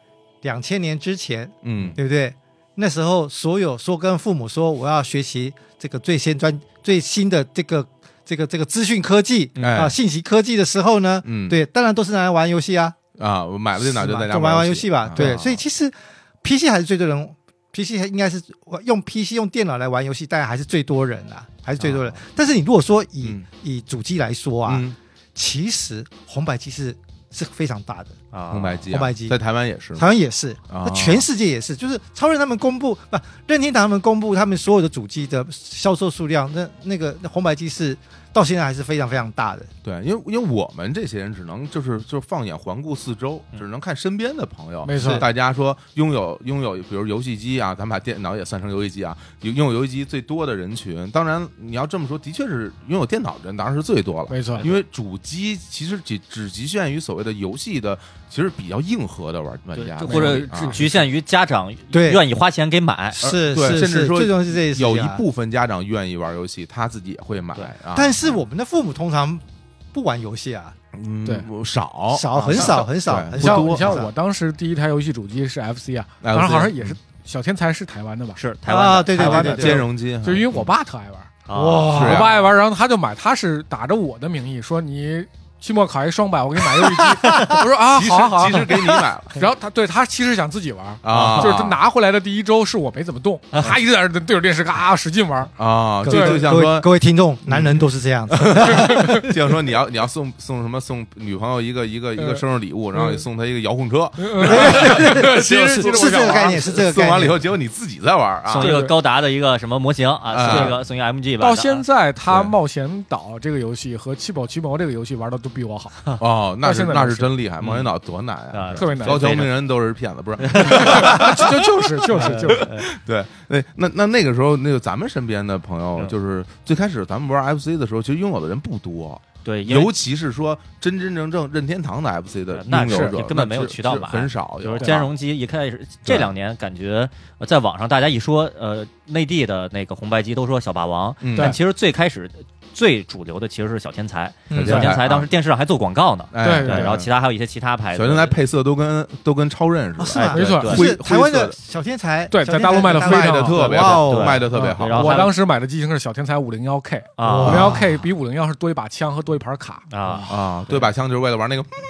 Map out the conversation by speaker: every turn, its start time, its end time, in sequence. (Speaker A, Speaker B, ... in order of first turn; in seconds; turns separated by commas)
Speaker A: 0.4-13.0, Speaker B: 1.6-2.0, Speaker C: 9.6-9.9, Speaker B: 9.6-10.0, Speaker B: 11.2-11.6, Speaker B: 13.2-15.4, Speaker A: 13.8-28.2, Speaker C: 15.2-15.6, Speaker C: 21.8-22.2, Speaker B: 24.6-25.0, Speaker C: 28.3-28.9, Speaker B: 28.5-30.1, Speaker A: 28.9-29.4, Speaker A: 30.0-39.7, Speaker B: 30.7-31.3, Speaker B: 39.8-60.8, Speaker D: 44.8-45.2, Speaker A: 44.9-45.3, Speaker D: 54.3-54.7, Speaker C: 54.5-54.8, Speaker C: 59.8-63.2, Speaker D: 60.0-61.0, Speaker A: 61.9-62.2, Speaker A: 63.2-65.2, Speaker B: 63.2-68.4, Speaker A: 67.9-70.8, Speaker B: 70.9-74.0, Speaker A: 72.1-74.1, Speaker D: 73.3-78.4, Speaker B: 76.2-77.0, Speaker C: 78.4-79.8, Speaker A: 78.7-79.8, Speaker D: 79.2-95.5, Speaker B: 79.3-80.7, Speaker C: 81.5-82.3, Speaker B: 81.9-82.4, Speaker A: 87.2-87.6, Speaker B: 87.8-89.4, Speaker B: 91.0-91.8, Speaker C: 91.1-91.7, Speaker C: 93.5-93.8, Speaker B: 95.6-96.9, Speaker A: 96.0-99.3, Speaker D: 96.1-96.6, Speaker B: 97.5-108.8, Speaker D: 98.7-99.3, Speaker D: 102.2-102.4, Speaker D: 103.0-103.2, Speaker D: 104.2-106.8, Speaker A: 104.4-107.4, Speaker C: 108.5-111.9, Speaker D: 108.5-109.0, Speaker B: 110.3-110.8, Speaker D: 110.5-110.8, Speaker D: 111.4-117.3, Speaker B: 112.3-112.5, Speaker B: 116.2-135.1, Speaker C: 117.6-117.9, Speaker C: 118.5-119.5, Speaker D: 118.7-119.3, Speaker C: 120.4-121.4, Speaker D: 120.6-122.8, Speaker C: 122.1-122.9, Speaker C: 129.4-129.9, Speaker C: 132.5-148.4, Speaker D: 132.8-133.2, Speaker B: 136.1-136.3, Speaker B: 141.2-141.6, Speaker A: 144.5-144.9, Speaker B: 144.5-145.3, Speaker B: 146.3-147.1, Speaker D: 146.4-147.0, Speaker B: 147.9-151.6, Speaker A: 150.0-154.4, Speaker C: 150.1-150.9, Speaker D: 150.3-150.8, Speaker D: 152.3-160.4, Speaker B: 152.9-155.2, Speaker C: 153.7-155.4, Speaker C: 157.2-158.0, Speaker A: 157.2-157.8, Speaker B: 157.4-157.8, Speaker C: 159.9-160.8, Speaker B: 160.3-161.7